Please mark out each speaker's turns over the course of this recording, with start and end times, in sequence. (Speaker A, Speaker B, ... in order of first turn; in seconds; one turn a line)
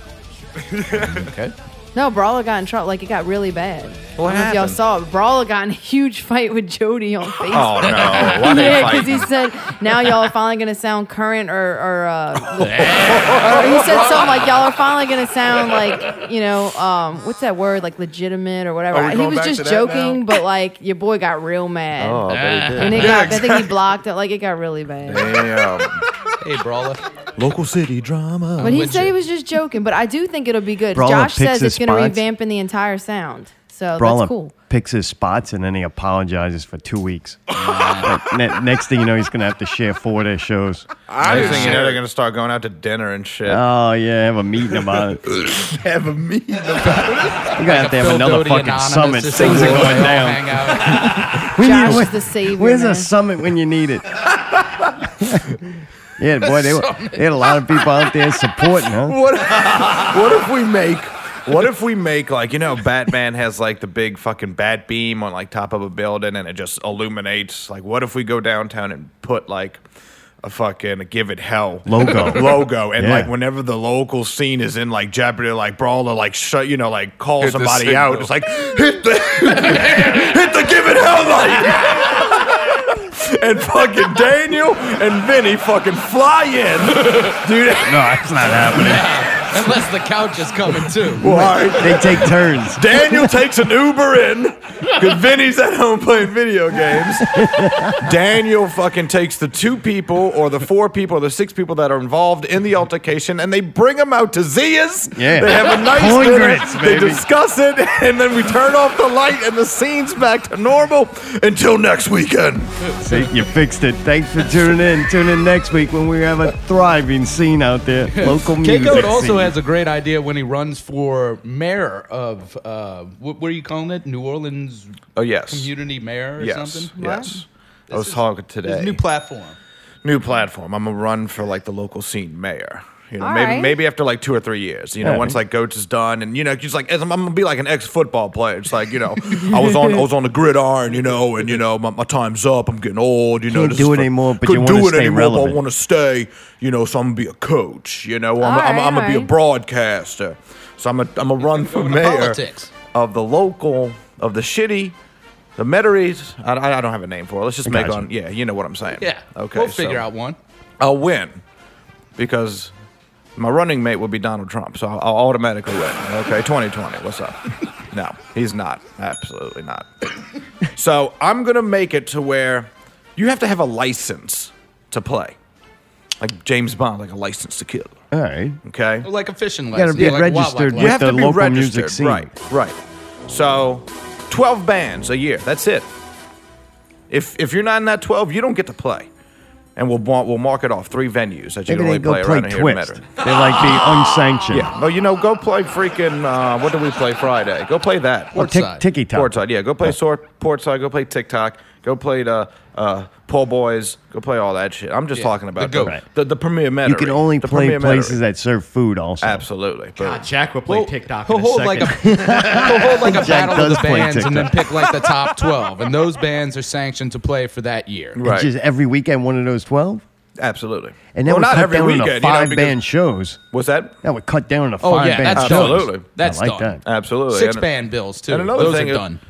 Speaker A: 0.8-1.2
Speaker B: 0.9-1.5
Speaker C: 1.9-25.4
Speaker A: 4.2-4.8
Speaker A: 7.5-9.3
Speaker B: 7.9-8.9
Speaker A: 12.6-14.2
Speaker B: 12.7-13.8
Speaker A: 18.9-20.3
Speaker A: 22.0-23.7
Speaker B: 22.3-23.3
Speaker A: 25.1-26.0
Speaker B: 26.4-27.0
Speaker A: 27.4-29.0
Speaker B: 28.6-29.1
Speaker C: 28.6-34.5
Speaker D: 30.9-32.2
Speaker D: 34.0-37.4
Speaker B: 37.5-38.1
Speaker D: 38.0-41.6
Speaker A: 41.1-43.6
Speaker B: 41.2-42.0
Speaker D: 43.5-45.2
Speaker A: 45.3-47.5
Speaker B: 46.8-51.1
Speaker D: 47.5-54.0
Speaker A: 49.3-50.2
Speaker C: 51.6-53.1
Speaker D: 55.2-55.5
Speaker D: 56.2-59.2
Speaker B: 56.4-57.7
Speaker A: 59.0-69.8
Speaker A: 70.4-88.7
Speaker D: 71.8-73.3
Speaker B: 79.5-80.2
Speaker D: 87.8-89.1
Speaker B: 88.7-91.3
Speaker A: 91.2-112.9
Speaker D: 91.2-93.3
Speaker D: 97.3-98.0
Speaker D: 105.1-107.2
Speaker D: 113.0-119.5
Speaker B: 118.1-126.9
Speaker A: 125.1-125.7
Speaker A: 126.4-129.0
Speaker C: 127.0-127.4
Speaker B: 127.9-129.6
Speaker A: 130.0-154.9
Speaker C: 133.2-133.7
Speaker D: 135.0-135.4
Speaker D: 143.5-145.6
Speaker C: 148.4-149.3
Speaker B: 151.4-152.7
Speaker A: 155.6-160.0
Speaker D: 157.6-158.1
Speaker B: 159.0-160.4
Speaker A: 160.8-161.4
Speaker A: 162.2-162.7
Speaker A: 163.3-169.9
Speaker A: 170.7-175.3
Speaker A: 176.2-178.0
Speaker D: 178.1-178.6
Speaker A: 178.6-179.1
Speaker B: 179.0-181.0
Speaker D: 179.7-182.3
Speaker A: 180.7-182.8
Speaker A: 183.3-185.9
Speaker A: 187.1-189.1
Speaker A: 189.8-198.4
Speaker D: 191.7-194.7
Speaker B: 198.3-198.8
Speaker D: 198.3-199.9
Speaker A: 199.1-208.2
Speaker B: 205.1-205.9
Speaker D: 206.8-209.4
Speaker A: 209.2-210.3
Speaker E: 209.9-213.1
Speaker B: 210.7-218.2
Speaker D: 211.9-214.6
Speaker A: 218.2-218.5
Speaker D: 218.2-220.0
Speaker A: 220.4-222.8
Speaker D: 221.1-223.4
Speaker A: 223.5-224.0
Speaker D: 224.0-226.8
Speaker B: 224.8-229.2
Speaker A: 225.3-226.1
Speaker A: 226.8-227.7
Speaker A: 228.3-229.0